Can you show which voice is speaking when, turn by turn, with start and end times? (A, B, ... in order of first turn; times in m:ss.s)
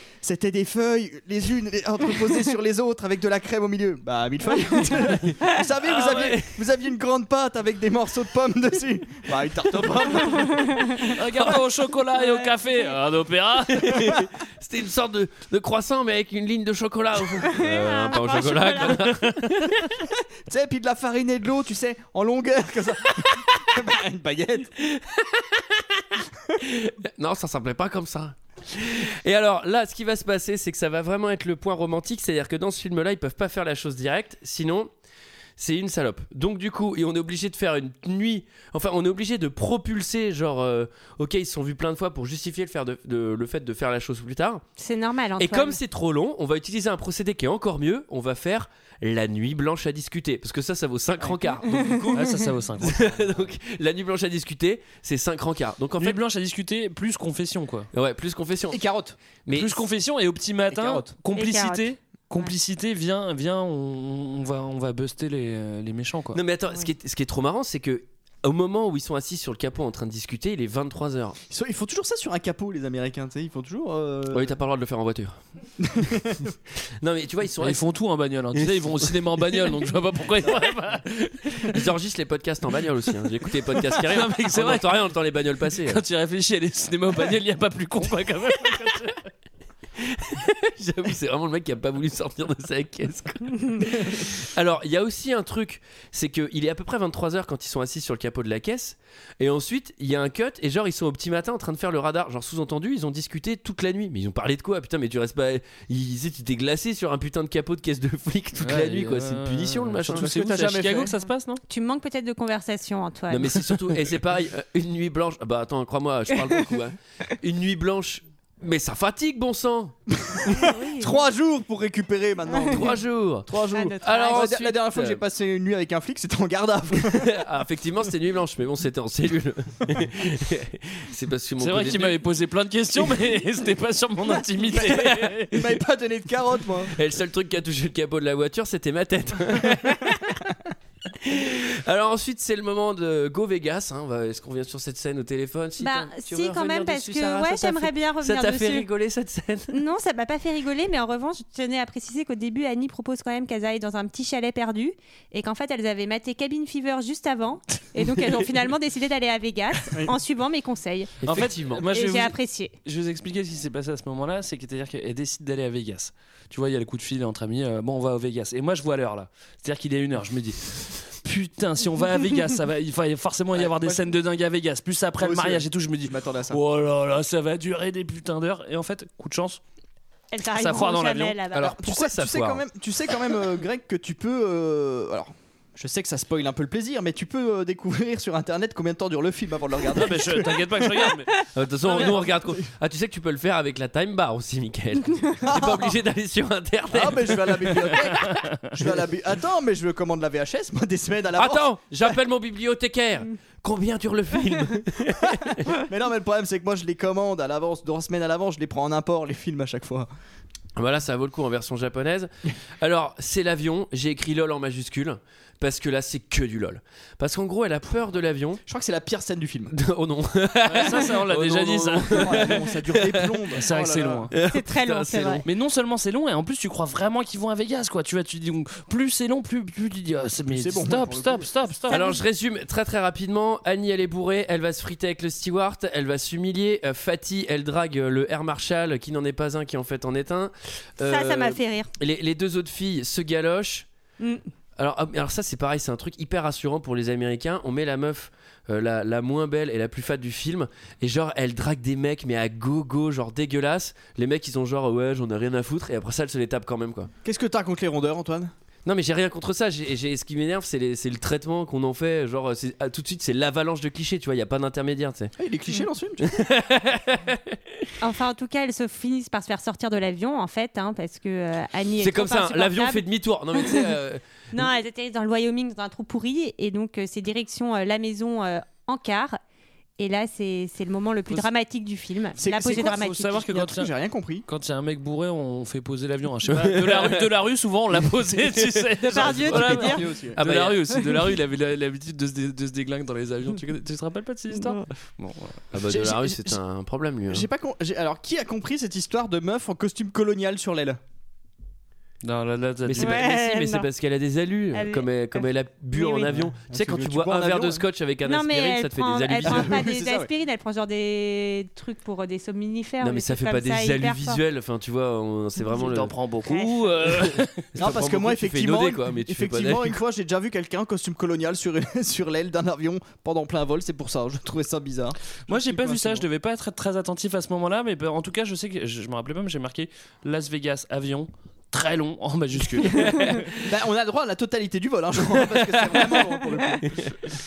0:00.2-0:10.9 A
0:05.8-0:06.6 B
0:11.1-0:14.2 C
0:13.8-0:19.8 B
0:17.4-0:19.1 D
0:20.5-0:24.7 A
0:24.9-0:25.6 B
0:26.6-0:34.9 B
0:35.6-0:44.6 B
0:44.8-0:45.8 D
0:45.4-0:56.2 B
0:52.1-0:53.4 C
0:56.0-0:57.9 C
0:57.9-0:58.8 B
0:58.7-0:59.2 A
0:59.4-0:59.8 B
0:59.5-1:06.4 C
1:00.7-1:01.1 A
1:01.3-1:02.5 D
1:06.3-1:11.4 B
1:11.5-1:14.6 A
1:14.3-1:15.4 B
1:15.8-1:16.5 A
1:17.0-1:17.8 B
1:17.6-1:21.8 C
1:21.7-1:26.0 B
1:23.5-1:25.1 C
1:25.7-1:29.3 C
1:30.0-1:50.8 B
1:48.6-1:51.6 C
1:50.1-1:51.1 A
1:51.7-1:53.6 D
1:53.3-2:00.6 B
2:00.6-2:01.2 D
2:01.0-2:02.9 A
2:02.7-2:05.2 B
2:03.5-2:07.4 A
2:03.7-2:04.4 D
2:07.0-2:12.2 B
2:11.6-2:15.8 C
2:14.8-2:16.9 A
2:17.0-2:20.4 B
2:21.2-2:29.8 B
2:25.8-2:28.9 D
2:29.7-2:41.1 D
2:41.2-2:41.8 B
2:41.2-2:59.6 C
2:41.9-2:42.7 D
2:53.6-2:54.0 A
2:55.2-2:56.6 A
3:00.3-3:01.7 D
3:00.6-3:01.4 C
3:01.5-3:02.6 B
3:01.6-3:11.1 A
3:09.9-3:11.4 C
3:11.5-3:17.9 B
3:15.4-3:16.0 A
3:16.9-3:22.2 A
3:21.4-3:25.6 B
3:25.7-3:30.1 A
3:30.8-3:38.6 B
3:38.6-3:39.7 A
3:39.7-3:43.3 B
3:40.7-3:42.6 C
3:42.1-3:44.3 A
3:43.6-3:44.3 C
3:44.3-3:45.4 B
3:44.4-3:45.4 D
3:45.4-3:52.0 C
3:50.5-3:51.5 A
3:51.9-4:03.9 B
3:51.9-3:52.2 D
4:01.0-4:01.9 D
4:04.2-4:04.5 D
4:04.8-4:17.1 B
4:17.2-4:18.5 A
4:18.8-4:25.3 B
4:25.4-4:26.3 A
4:26.2-4:27.6 B
4:28.0-4:33.0 D
4:32.0-4:34.6 B
4:33.6-4:33.9 D
4:34.5-4:39.4 D
4:40.0-4:43.4 D
4:42.4-4:44.4 A
4:42.8-4:43.9 C
4:44.4-4:55.6 C
4:46.5-4:47.2 B
4:48.8-4:50.8 B
4:49.1-4:50.0 D
4:49.7-4:50.4 A
4:51.0-4:51.3 D
4:54.5-4:54.8 D
4:55.7-4:57.4 B
4:55.8-4:56.6 A
4:57.3-5:01.0 A
5:02.2-5:03.2 C
5:02.8-5:09.8 B
5:03.0-5:03.9 D
5:04.7-5:06.3 D
5:06.2-5:07.8 A
5:08.2-5:14.4 D
5:09.4-5:10.3 A
5:13.0-5:16.1 B
5:15.7-5:17.6 C
5:16.5-5:16.7 D
5:17.1-5:20.0 B
5:17.8-5:26.3 A
5:25.5-5:33.4 C
5:33.1-5:33.3 B
5:33.6-5:37.0 A
5:35.8-5:36.2 B